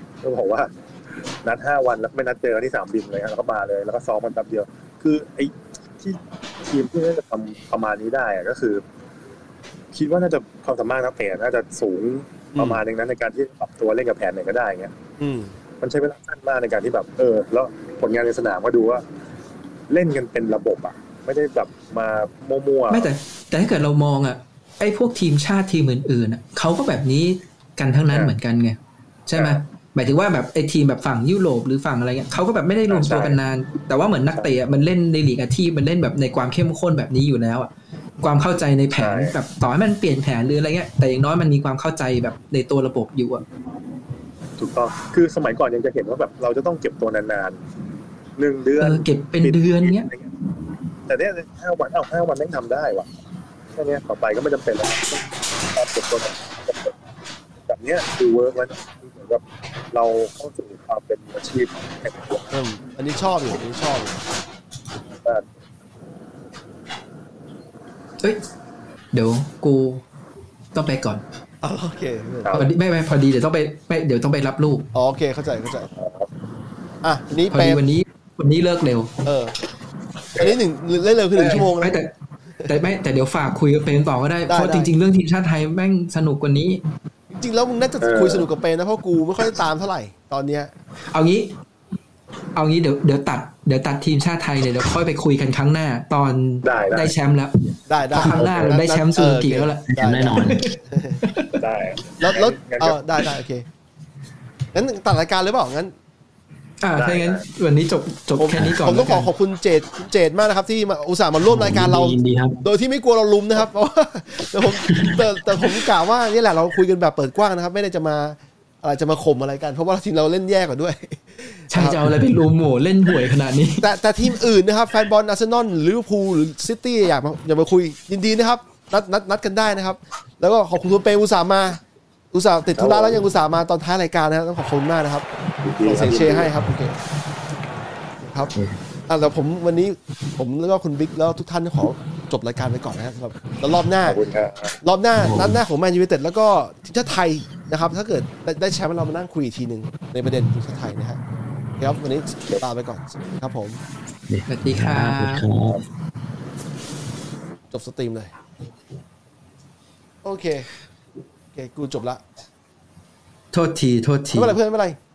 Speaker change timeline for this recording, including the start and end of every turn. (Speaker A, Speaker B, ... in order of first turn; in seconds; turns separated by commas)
Speaker A: 0.2-0.7, Speaker A: 1.4-8.8, Speaker A: 9.9-14.9, Speaker B: 12.6-12.8, Speaker B: 15.2-15.5, Speaker A: 15.8-19.0, Speaker A: 19.9-23.1, Speaker C: 22.9-37.7, Speaker A: 29.4-29.6, Speaker A: 32.9-33.4, Speaker C: 38.2-43.4, Speaker A: 39.0-39.4, Speaker A: 44.6-47.6, Speaker A: 48.4-50.3, Speaker C: 48.8-50.1, Speaker A: 51.1-53.1, Speaker A: 53.7-56.9, Speaker A: 57.7-62.5, Speaker B: 62.5-64.3, Speaker C: 69.1-70.0, Speaker C: 70.7-71.2, Speaker B: 71.6-72.6, Speaker C: 72.5-74.9, Speaker B: 74.9-75.9, Speaker A: 76.0-76.3, Speaker B: 77.0-77.8, Speaker C: 77.5-79.2, Speaker B: 79.2-79.5, Speaker B: 80.3-82.0, Speaker C: 81.4-82.1, Speaker C: 82.7-86.8, Speaker B: 84.5-84.9, Speaker B: 87.3-90.7, Speaker A: 88.0-88.5, Speaker C: 91.1-91.5, Speaker C: 92.6-101.6, Speaker A: 96.6-97.1, Speaker B: 97.9-101.2, Speaker D: 99.9-100.7, Speaker A: 101.6-103.0, Speaker B: 102.2-103.7, Speaker B: 104.7-105.9, Speaker C: 106.8-109.3, Speaker A: 107.0-107.5, Speaker B: 108.4-122.1, Speaker D: 111.5-112.6, Speaker D: 114.8-115.3, Speaker C: 121.7-123.9, Speaker B: 123.8-131.8, Speaker B: 132.3-135.3, Speaker A: 132.8-133.2, Speaker A: 135.6-136.5, Speaker B: 135.8-137.0, Speaker B: 138.2-138.5, Speaker B: 139.1-144.2, Speaker A: 144.1-144.8, Speaker B: 144.8-151.2, Speaker D: 145.2-145.6, Speaker B: 151.8-153.8, Speaker D: 154.3-155.8, Speaker C: 154.5-155.4, Speaker B: 157.7-158.3, Speaker B: 160.2-160.7, Speaker B: 161.5-162.2, Speaker C: 163.5-164.6, Speaker B: 164.3-165.0